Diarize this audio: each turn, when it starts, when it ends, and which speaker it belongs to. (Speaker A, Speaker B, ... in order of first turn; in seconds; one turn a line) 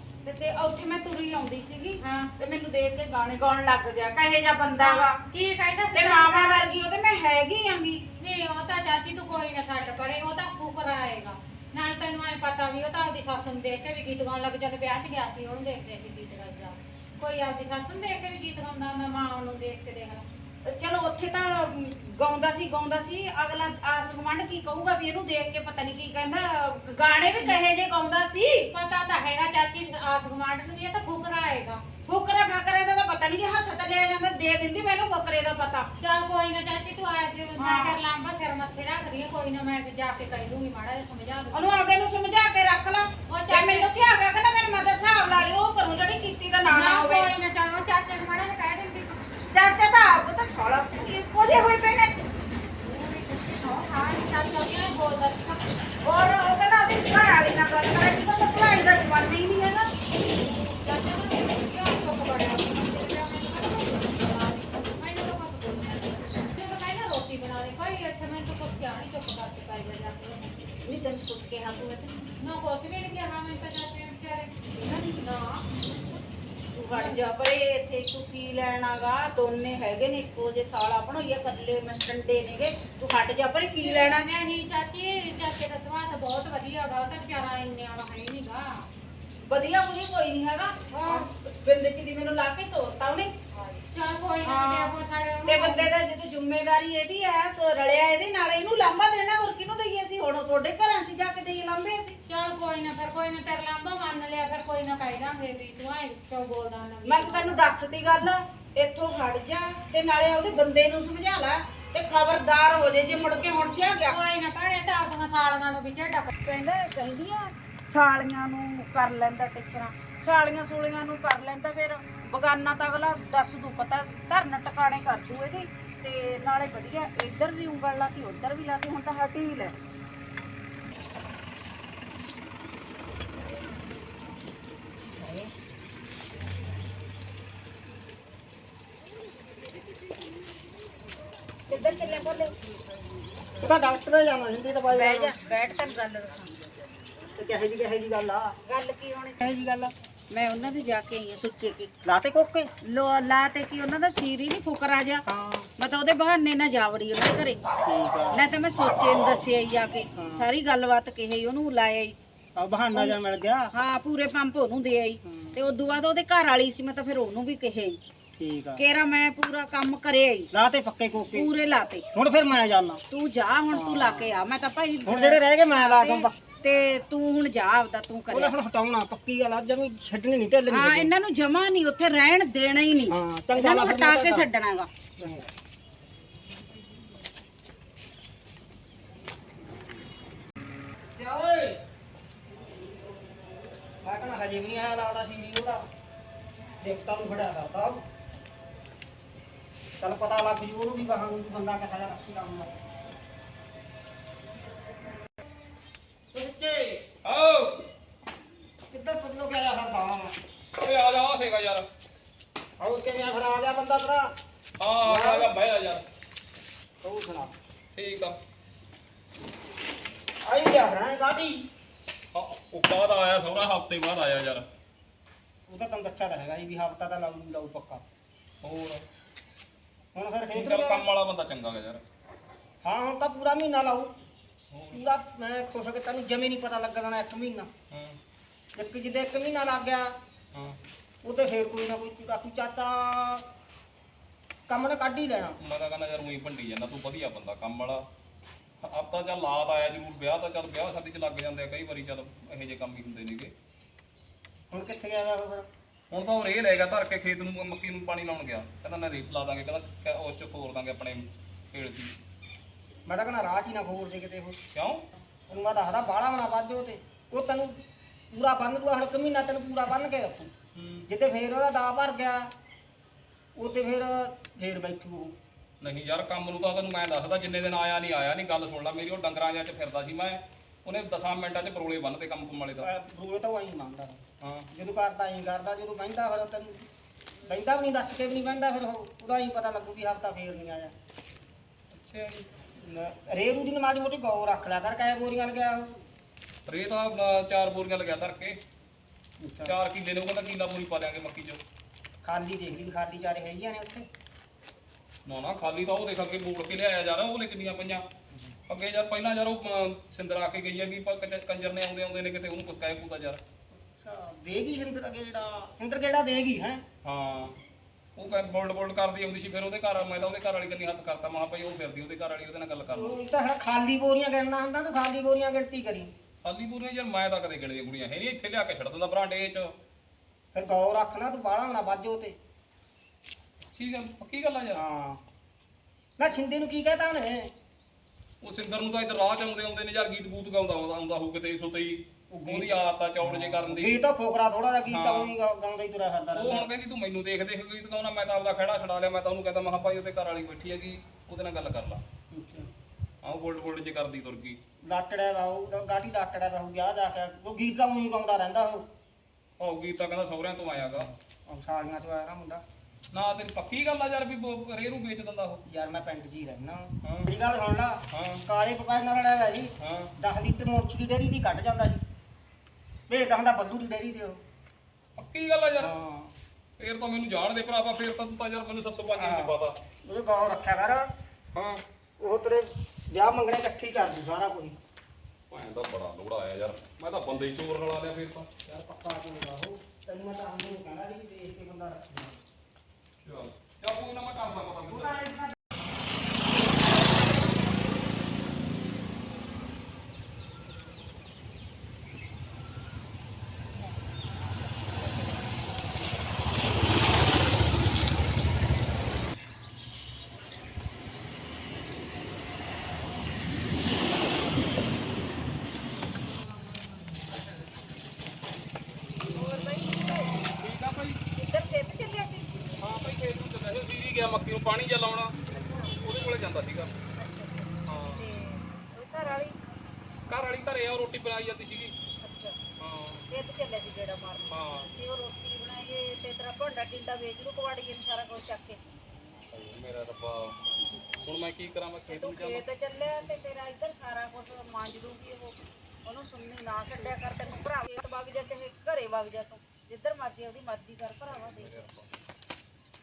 Speaker A: 0.2-5.2
Speaker B: 2.0-2.3
Speaker B: 4.8-6.9
Speaker A: 5.9-8.0
Speaker B: 8.2-20.2
Speaker A: 20.7-28.7
Speaker B: 28.7-31.8
Speaker A: 32.1-35.9
Speaker B: 36.0-41.9
Speaker A: 37.6-38.0
Speaker A: 41.5-47.3
Speaker B: 43.3-43.9
Speaker B: 46.7-49.2
Speaker A: 49.5-52.1
Speaker B: 52.8-55.8
Speaker A: 56.0-59.9
Speaker B: 60.4-70.6
Speaker A: 70.8-72.1
Speaker B: 72.4-74.6
Speaker A: 74.7-75.2
Speaker B: 75.2-75.7
Speaker A: 75.8-76.2
Speaker A: 76.7-84.3
Speaker B: 76.9-77.2
Speaker B: 83.8-88.9
Speaker A: 89.5-93.3
Speaker B: 90.9-91.3
Speaker B: 93.5-95.9
Speaker A: 94.4-102.2
Speaker B: 102.3-107.7
Speaker A: 107.0-114.2
Speaker B: 114.1-116.3
Speaker A: 116.4-129.7
Speaker C: 135.2-135.5
Speaker A: 141.7-142.5
Speaker C: 143.6-145.4
Speaker A: 144.9-146.5
Speaker C: 147.3-148.6
Speaker A: 148.7-149.6
Speaker C: 149.4-149.9
Speaker A: 150.3-151.9
Speaker C: 152.1-152.7
Speaker A: 152.8-155.2
Speaker C: 155.3-155.7
Speaker A: 155.8-157.6
Speaker C: 157.8-158.5
Speaker A: 158.3-162.2
Speaker C: 160.1-160.5
Speaker C: 162.6-163.7
Speaker A: 162.9-163.2
Speaker A: 163.7-168.0
Speaker C: 165.2-165.6
Speaker C: 168.4-168.8
Speaker A: 168.8-170.5
Speaker C: 170.5-171.5
Speaker A: 171.3-172.1
Speaker C: 172.2-173.0
Speaker A: 173.1-178.5
Speaker C: 173.7-174.3
Speaker C: 175.1-176.3
Speaker C: 178.3-181.1
Speaker A: 180.7-184.9
Speaker C: 183.1-184.5
Speaker C: 185.2-185.5
Speaker C: 191.2-191.8
Speaker C: 194.0-195.8
Speaker C: 196.8-198.0
Speaker C: 200.0-202.7
Speaker C: 206.3-207.0
Speaker D: 207.2-207.8
Speaker C: 208.9-210.3
Speaker D: 210.8-211.8
Speaker C: 212.8-214.3
Speaker D: 214.8-216.0
Speaker C: 215.1-215.5
Speaker C: 217.0-217.5
Speaker D: 217.9-218.4
Speaker C: 220.4-221.7
Speaker D: 222.3-224.7
Speaker C: 225.7-228.0
Speaker D: 228.6-229.0
Speaker C: 230.1-231.1
Speaker D: 230.5-232.0
Speaker C: 232.8-234.1
Speaker D: 234.7-235.1
Speaker C: 234.9-237.7
Speaker D: 237.9-238.2
Speaker C: 238.8-240.1
Speaker C: 241.2-243.5
Speaker C: 244.7-245.6
Speaker D: 245.6-248.0
Speaker D: 248.8-253.5
Speaker C: 254.7-255.7
Speaker D: 256.1-262.1
Speaker C: 263.1-264.6
Speaker D: 264.8-265.0
Speaker C: 265.5-270.5
Speaker D: 270.8-271.1
Speaker C: 271.1-272.5
Speaker C: 273.6-275.4
Speaker D: 275.8-282.9
Speaker C: 282.8-284.2
Speaker D: 284.4-284.7
Speaker C: 284.7-286.8
Speaker C: 287.5-290.9
Speaker D: 291.9-292.5
Speaker C: 292.8-296.0
Speaker D: 296.7-298.6
Speaker C: 299.4-299.8
Speaker D: 299.6-301.6
Speaker C: 302.2-304.1
Speaker D: 305.2-308.0
Speaker D: 308.7-313.4
Speaker C: 313.9-316.8
Speaker D: 317.1-317.6
Speaker D: 318.2-323.2
Speaker C: 322.9-326.1
Speaker D: 326.4-329.7
Speaker C: 330.5-332.4
Speaker D: 333.7-334.8
Speaker C: 334.7-335.2
Speaker C: 336.2-337.5
Speaker D: 338.4-344.0
Speaker C: 342.3-346.7
Speaker D: 344.9-345.3
Speaker D: 346.3-352.0
Speaker C: 352.3-352.7
Speaker D: 353.2-354.6
Speaker C: 354.8-358.9
Speaker D: 359.6-361.1
Speaker C: 360.9-362.6
Speaker D: 363.1-365.6
Speaker C: 365.7-372.0
Speaker D: 367.1-367.3
Speaker D: 368.1-368.4
Speaker D: 369.8-370.1
Speaker C: 373.1-374.4
Speaker D: 375.2-375.9
Speaker C: 375.8-376.3
Speaker D: 376.8-379.8
Speaker C: 379.1-381.1
Speaker D: 381.6-381.8
Speaker C: 382.2-384.8
Speaker D: 385.5-388.5
Speaker C: 388.7-392.4
Speaker D: 393.2-395.2
Speaker C: 394.9-395.6
Speaker A: 419.2-420.5
Speaker D: 420.6-421.2
Speaker A: 421.4-422.7
Speaker D: 422.8-426.9
Speaker A: 425.6-425.9
Speaker A: 427.1-429.9
Speaker D: 427.9-428.2
Speaker D: 430.3-431.9
Speaker A: 432.2-432.6
Speaker D: 432.8-433.2
Speaker A: 433.3-438.8
Speaker D: 434.5-434.9
Speaker D: 439.5-440.6
Speaker D: 441.2-442.6
Speaker A: 442.1-451.8
Speaker D: 451.6-452.1